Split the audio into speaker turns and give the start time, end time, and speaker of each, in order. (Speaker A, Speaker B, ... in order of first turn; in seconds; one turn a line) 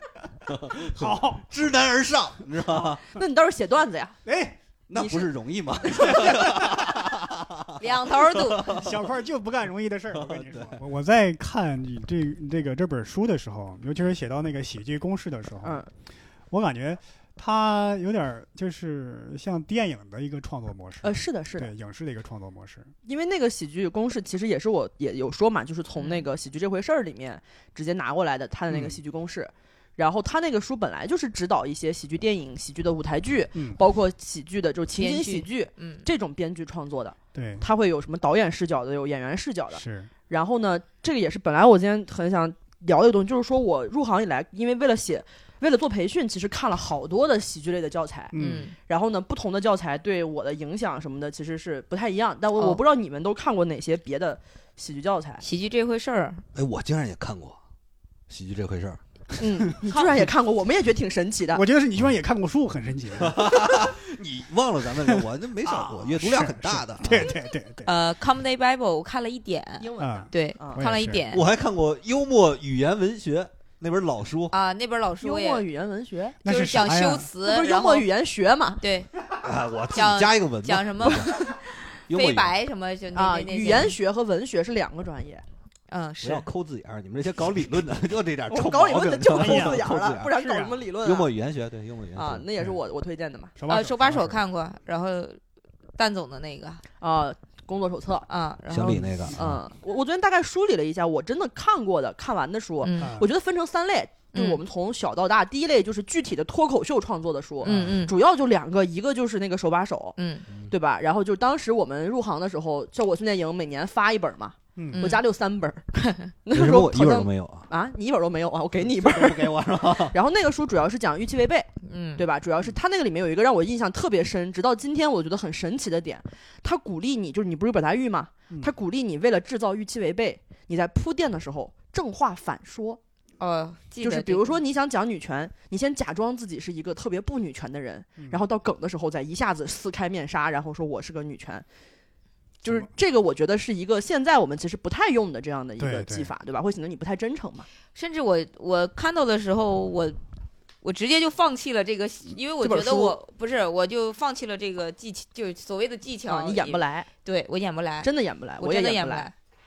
Speaker A: 0.5-3.0
Speaker B: 0.8-1.4
Speaker C: 3.1-4.2
Speaker B: 4.2-4.6
Speaker A: 4.9-8.9
Speaker C: 5.0-5.3
Speaker C: 5.8-6.7
Speaker D: 7.8-8.8
Speaker B: 8.7-15.8
Speaker A: 10.1-10.8
Speaker C: 15.6-15.9
Speaker B: 16.5-22.9
Speaker C: 21.0-21.7
Speaker C: 23.1-55.4
Speaker D: 26.0-26.3
Speaker B: 28.7-29.0
Speaker D: 34.9-36.1
Speaker B: 37.3-37.7
Speaker B: 39.8-40.1
Speaker B: 48.3-48.7
Speaker D: 48.3-48.8
Speaker D: 55.4-56.4
Speaker A: 56.5-57.6
Speaker A: 58.3-59.0
Speaker C: 59.4-61.6
Speaker B: 61.5-63.5
Speaker A: 63.2-67.3
Speaker B: 65.1-67.9
Speaker D: 67.8-71.5
Speaker C: 69.8-70.9
Speaker B: 70.0-71.2
Speaker A: 71.3-74.5
Speaker D: 74.5-75.7
Speaker C: 75.2-76.4
Speaker B: 76.5-77.3
Speaker D: 76.5-78.1
Speaker C: 77.4-78.8
Speaker D: 78.8-79.1
Speaker A: 79.4-81.5
Speaker D: 79.9-84.0
Speaker A: 82.1-82.5
Speaker C: 83.1-85.4
Speaker D: 85.9-86.5
Speaker A: 86.2-90.3
Speaker C: 88.5-91.3
Speaker B: 89.3-90.8
Speaker A: 91.0-92.5
Speaker C: 92.2-93.5
Speaker B: 93.6-94.4
Speaker D: 93.7-95.4
Speaker D: 96.0-96.8
Speaker C: 97.0-98.3
Speaker D: 98.3-99.1
Speaker A: 98.7-99.6
Speaker C: 99.3-110.2
Speaker D: 102.8-103.1
Speaker B: 103.0-103.3
Speaker D: 104.3-104.6
Speaker D: 107.6-108.2
Speaker B: 107.7-108.0
Speaker D: 110.2-110.5
Speaker C: 110.7-133.0
Speaker B: 114.8-115.0
Speaker D: 114.9-115.2
Speaker A: 116.5-117.7
Speaker A: 118.8-120.2
Speaker D: 121.8-122.2
Speaker D: 133.4-134.6
Speaker C: 134.0-141.7
Speaker C: 142.6-147.7
Speaker B: 145.8-146.3
Speaker D: 147.9-150.2
Speaker D: 150.8-159.3
Speaker C: 152.6-153.2
Speaker C: 156.3-157.1
Speaker C: 158.0-159.3